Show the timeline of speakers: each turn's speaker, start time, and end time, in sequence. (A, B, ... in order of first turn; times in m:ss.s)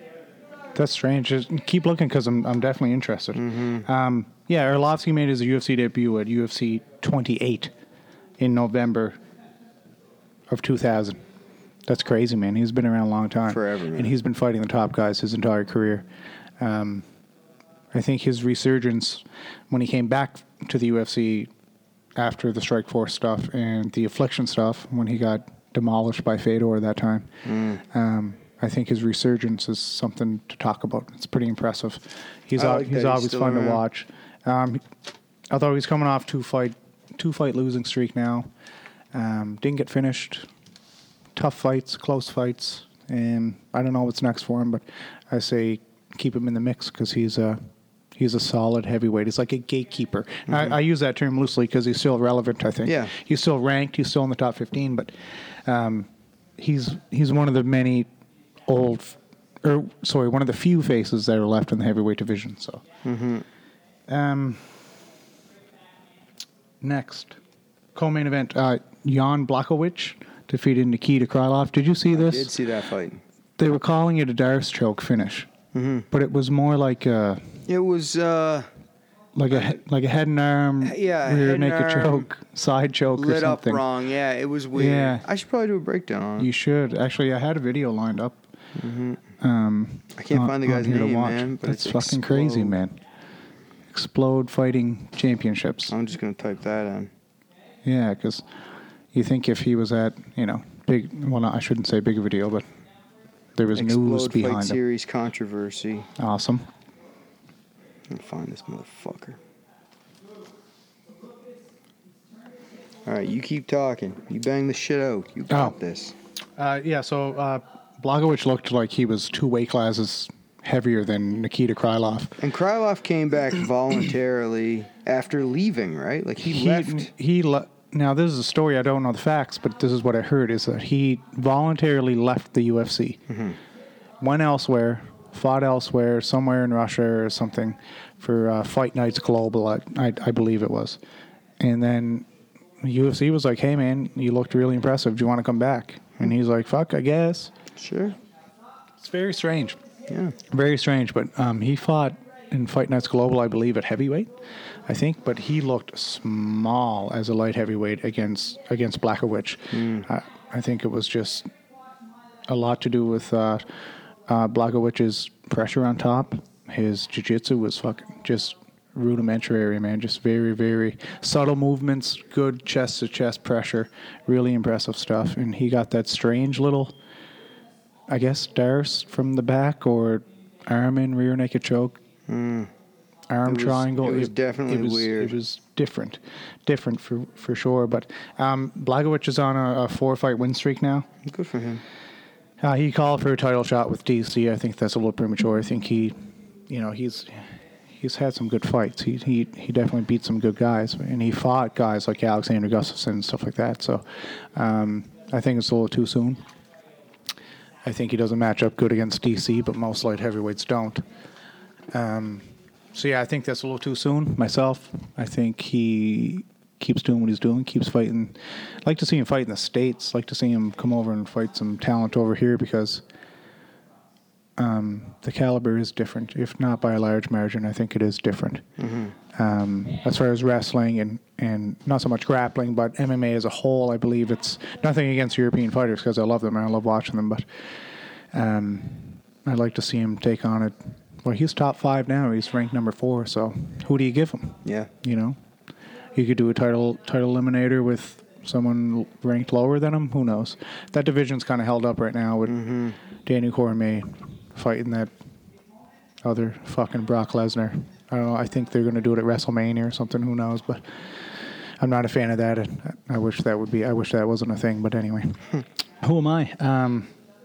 0:00.8-0:07.7 A
0:03.4-0:03.9 B
0:08.4-0:09.2 A
0:10.5-0:11.2 A
0:11.9-0:16.1 A
0:13.5-0:14.2 B
0:16.6-0:17.0 A
0:17.9-0:21.5 A
0:22.2-0:34.8 A
0:27.4-0:27.8 B
0:32.6-0:33.8 B
0:35.5-0:38.5 A
0:39.1-0:40.5 A
0:41.4-0:47.6 A
0:48.2-0:55.1 A
0:50.5-0:50.8 B
0:52.8-0:53.1 B
0:55.6-0:58.1 A
0:58.7-1:02.8 A
1:03.0-1:03.4 B
1:04.1-1:04.6 A
1:06.8-1:07.4 A
1:07.9-1:12.5 A
1:12.1-1:13.2 B
1:13.6-1:15.5 A
1:15.7-1:16.1 B
1:16.1-1:17.4 A
1:17.7-1:18.7 B
1:19.4-1:23.8 A
1:19.5-1:19.8 B
1:20.8-1:22.3 B
1:23.2-1:26.5 B
1:24.7-1:25.2 A
1:26.4-1:28.5 A
1:28.8-1:29.2 B
1:29.4-1:33.0 A
1:30.2-1:32.8 B
1:33.9-1:35.9 A
1:35.9-1:37.1 B
1:37.8-1:38.4 A
1:39.1-1:42.6 A
1:43.6-1:44.8 A
1:43.8-1:46.1 B
1:46.2-1:46.7 A
1:48.1-1:49.4 B
1:53.1-1:56.1 B
1:55.5-1:55.8 A
1:56.6-2:02.3 A
2:02.4-2:07.1 B
2:06.4-2:13.2 A
2:13.3-2:13.6 B
2:14.2-2:21.0 A
2:21.6-2:22.3 A
2:22.8-2:27.5 A
2:27.8-2:28.2 B
2:29.0-2:29.8 A
2:30.1-2:30.4 B
2:30.5-2:34.3 A
2:34.9-2:41.5 A
2:39.7-2:40.1 B
2:42.5-2:43.6 A
2:44.3-2:56.9 A
2:58.1-3:02.0 A
3:02.3-3:02.7 B
3:03.3-3:11.1 A
3:03.4-3:05.4 B
3:11.2-3:11.8 B
3:12.6-3:16.2 A
3:16.7-3:26.4 A
3:27.8-3:31.0 A
3:31.9-3:43.0 A
3:44.6-3:48.7 A
3:48.8-3:49.1 B
3:49.3-3:57.4 A
3:58.3-4:05.4 A
4:04.6-4:04.9 B
4:06.2-4:12.6 A
4:12.4-4:13.0 B
4:13.2-4:15.1 A
4:16.2-4:27.1 A